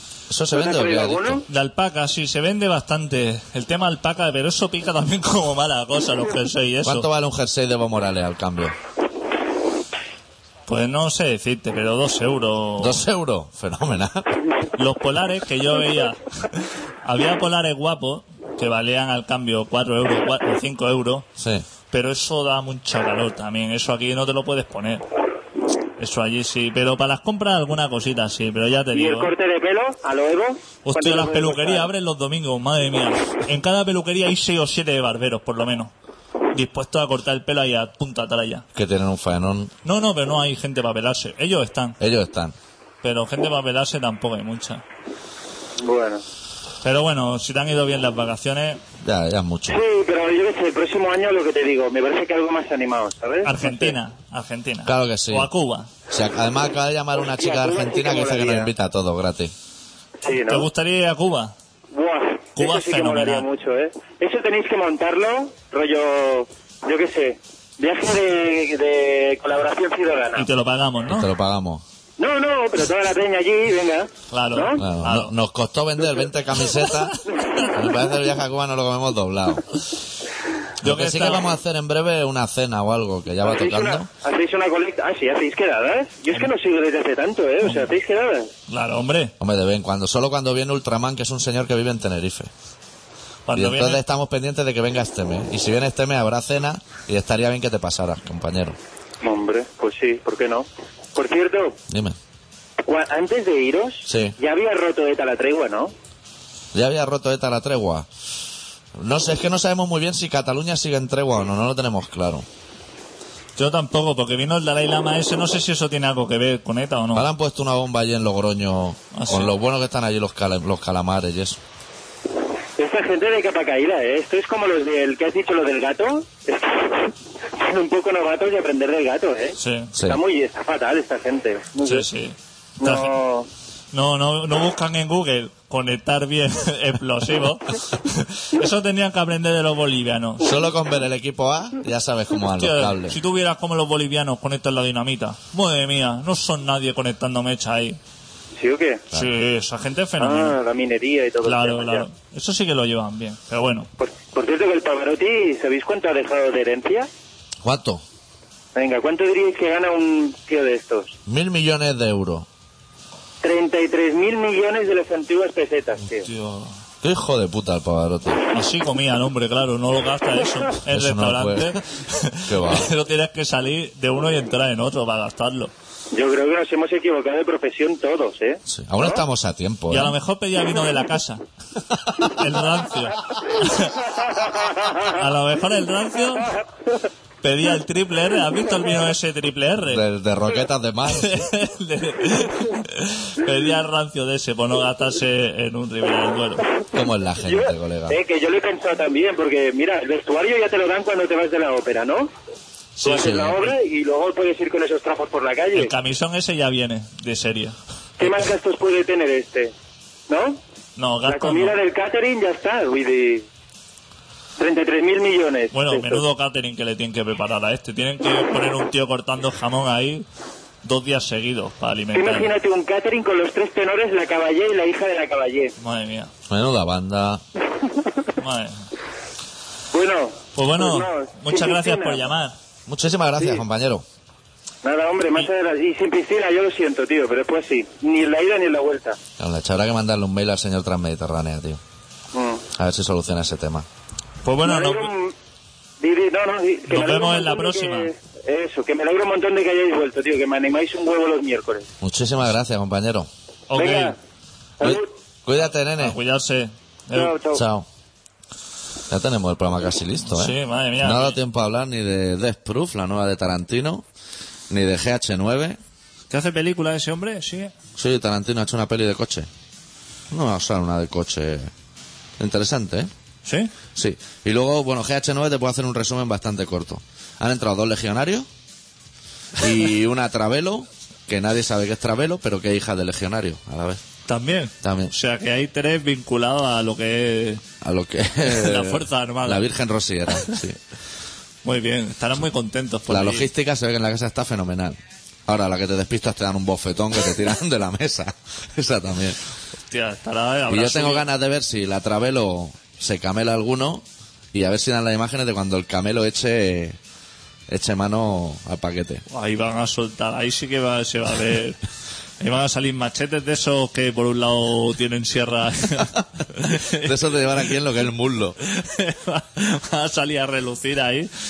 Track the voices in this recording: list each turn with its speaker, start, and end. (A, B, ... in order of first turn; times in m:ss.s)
0:00.3-0:01.4 A
0:00.5-0:01.4 B
0:01.5-0:07.1 C
0:06.8-0:08.8 A
0:10.7-0:13.0 C
0:12.8-0:14.4 A
0:14.8-0:21.3 C
0:21.4-0:21.6 A
0:21.9-0:25.0 C
0:26.0-0:29.3 C
0:28.9-0:31.9 B
0:30.8-0:35.9 C
0:36.5-0:38.6 C
0:38.7-0:39.7 A
0:39.8-0:42.0 C
0:42.0-0:42.6 A
0:43.0-0:44.8 C
0:45.8-0:46.2 B
0:46.8-0:48.8 C
0:49.0-0:49.8 A
0:49.7-0:53.9 B
0:53.4-0:55.9 C
0:54.8-0:55.5 A
0:56.1-0:59.5 A
0:57.3-0:58.7 B
1:00.2-1:00.7 B
1:00.4-1:01.5 C
1:01.9-1:10.5 B
1:02.6-1:03.5 C
1:10.4-1:11.3 C
1:11.1-1:11.8 A
1:12.2-1:14.8 B
1:14.3-1:15.3 C
1:14.8-1:19.6 A
1:20.8-1:24.1 A
1:20.8-1:21.5 C
1:23.4-1:28.5 B
1:28.7-1:29.3 C
1:29.4-1:32.5 A
1:33.4-1:34.0 C
1:33.5-1:38.8 A
1:39.2-1:41.8 B
1:41.9-1:42.2 A
1:42.8-1:45.9 B
1:44.0-1:44.4 A
1:46.7-1:48.1 A
1:49.0-1:52.4 A
1:53.6-1:57.3 C
1:57.1-2:01.6 A
1:59.1-1:59.5 C
2:02.8-2:12.1 B
2:09.6-2:09.9 C
2:09.9-2:10.2 A
2:11.8-2:13.1 C
2:12.8-2:13.5 B
2:13.9-2:20.6 C
2:20.4-2:23.2 A
2:22.6-2:28.0 C
2:28.6-2:29.0 B
2:29.1-2:30.6 C
2:30.2-2:32.0 B
2:31.4-2:33.9 C
2:34.0-2:37.1 B
2:37.6-2:38.0 A
2:38.7-2:41.2 B
2:41.3-2:42.5 A
2:43.4-2:46.3 B
2:46.2-2:46.7 C
2:47.0-2:48.4 A
2:48.5-2:55.7 C
2:50.9-2:51.8 A
2:52.4-2:52.9 A
2:56.1-2:59.2 B
2:58.7-3:00.2 A
2:59.9-3:01.4 C
3:02.1-3:04.1 C
3:04.4-3:05.0 B
3:05.0-3:06.6 C
3:07.4-3:10.0 C
3:09.8-3:11.5 A
3:11.1-3:16.7 C
3:16.9-3:18.2 A
3:17.4-3:22.3 B
3:23.0-3:23.6 A
3:23.0-3:25.9 B
3:25.7-3:28.5 C
3:28.2-3:29.7 B
3:30.3-3:30.6 B
3:31.0-3:31.8 C
3:31.2-3:33.5 B
3:34.6-3:36.2 B
3:35.7-3:40.2 C
3:40.8-3:42.5 C
3:42.1-3:45.7 B
3:45.8-3:46.3 C
3:46.5-3:47.4 A
3:48.4-3:48.9 C
3:49.9-3:52.2 B
3:50.5-3:52.5 C
3:52.9-3:54.0 A
3:54.8-3:59.2 B
3:59.4-4:01.8 A
4:02.3-4:02.6 B
4:02.7-4:03.8 A
4:04.4-4:05.1 C
4:04.6-4:05.3 B
4:06.0-4:11.9 B
4:06.9-4:08.1 C
4:12.0-4:13.3 A
4:13.7-4:14.1 C
4:13.7-4:14.2 B
4:14.8-4:15.1 B
4:14.8-4:16.2 A
4:16.0-4:17.4 C
4:17.1-4:17.6 B
4:17.5-4:17.8 A
4:19.1-4:24.0 A
4:20.3-4:21.4 C
4:24.7-4:25.8 A
4:26.3-4:27.7 C
4:28.0-4:29.5 A
4:30.3-4:31.7 A
4:32.4-4:33.1 A
4:33.4-4:33.7 C
4:33.9-4:38.5 A
4:39.6-4:44.0 A
4:44.3-4:47.6 C
4:44.8-4:45.1 A
4:47.8-4:50.8 A
4:48.4-4:49.6 C
4:51.6-4:53.5 C
4:53.1-4:59.4 A
4:59.9-5:01.2 C
5:00.7-5:07.0 A
5:07.7-5:09.2 A
5:09.3-5:11.8 C
5:12.4-5:17.1 C
5:16.7-5:18.6 A
5:18.7-5:21.3 C